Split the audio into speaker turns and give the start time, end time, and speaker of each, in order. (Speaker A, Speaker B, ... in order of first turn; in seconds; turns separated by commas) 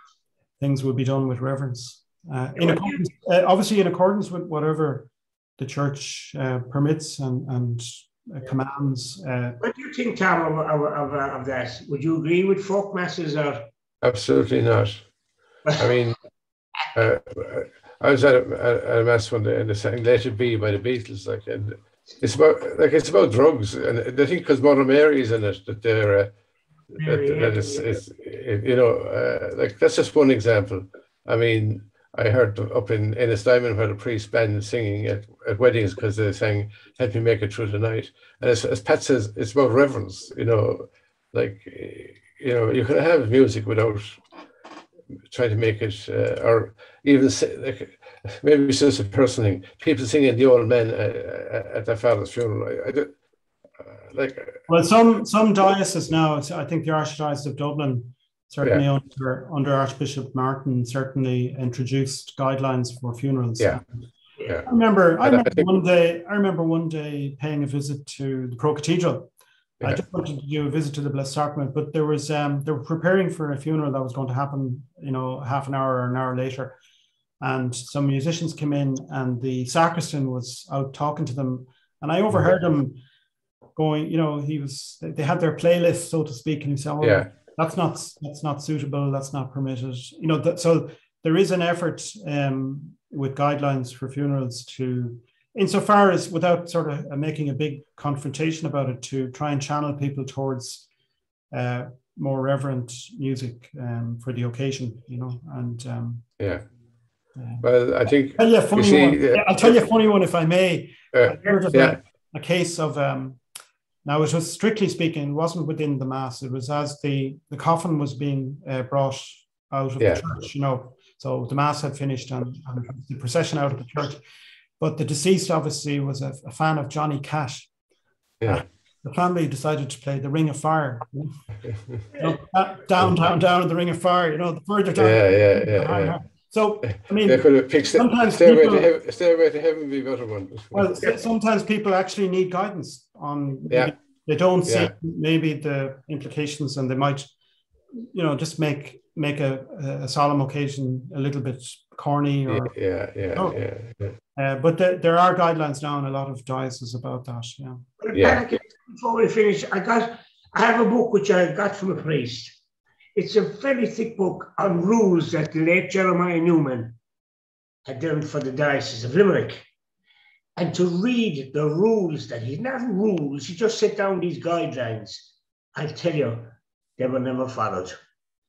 Speaker A: 0.6-9.6, Speaker B: 2.5-3.1, Speaker B: 9.6-13.6, Speaker C: 14.0-15.1, Speaker B: 15.7-16.0, Speaker C: 15.8-16.2, Speaker C: 16.9-26.3, Speaker B: 27.0-28.0, Speaker C: 27.0-44.2, Speaker C: 45.3-53.2, Speaker C: 53.8-54.6, Speaker A: 54.7-64.0, Speaker A: 64.6-69.3, Speaker C: 65.2-65.6, Speaker A: 69.8-76.7, Speaker A: 77.4-83.0, Speaker A: 83.8-100.9, Speaker C: 87.0-87.3, Speaker A: 101.5-106.3, Speaker C: 106.4-106.6, Speaker A: 107.4-107.6, Speaker C: 107.6-109.8, Speaker A: 108.4-113.4, Speaker C: 111.1-112.0, Speaker A: 114.0-124.2, Speaker C: 120.0-120.2, Speaker A: 124.8-127.7, Speaker A: 128.4-131.4, Speaker A: 132.0-138.9, Speaker C: 135.0-136.2, Speaker C: 136.9-141.0, Speaker A: 140.7-147.3, Speaker C: 144.7-144.9, Speaker A: 148.0-153.6, Speaker C: 152.5-154.2, Speaker A: 154.3-157.8, Speaker B: 158.0-162.6, Speaker C: 158.1-158.4, Speaker B: 163.2-166.9, Speaker B: 167.9-169.6, Speaker B: 170.6-177.9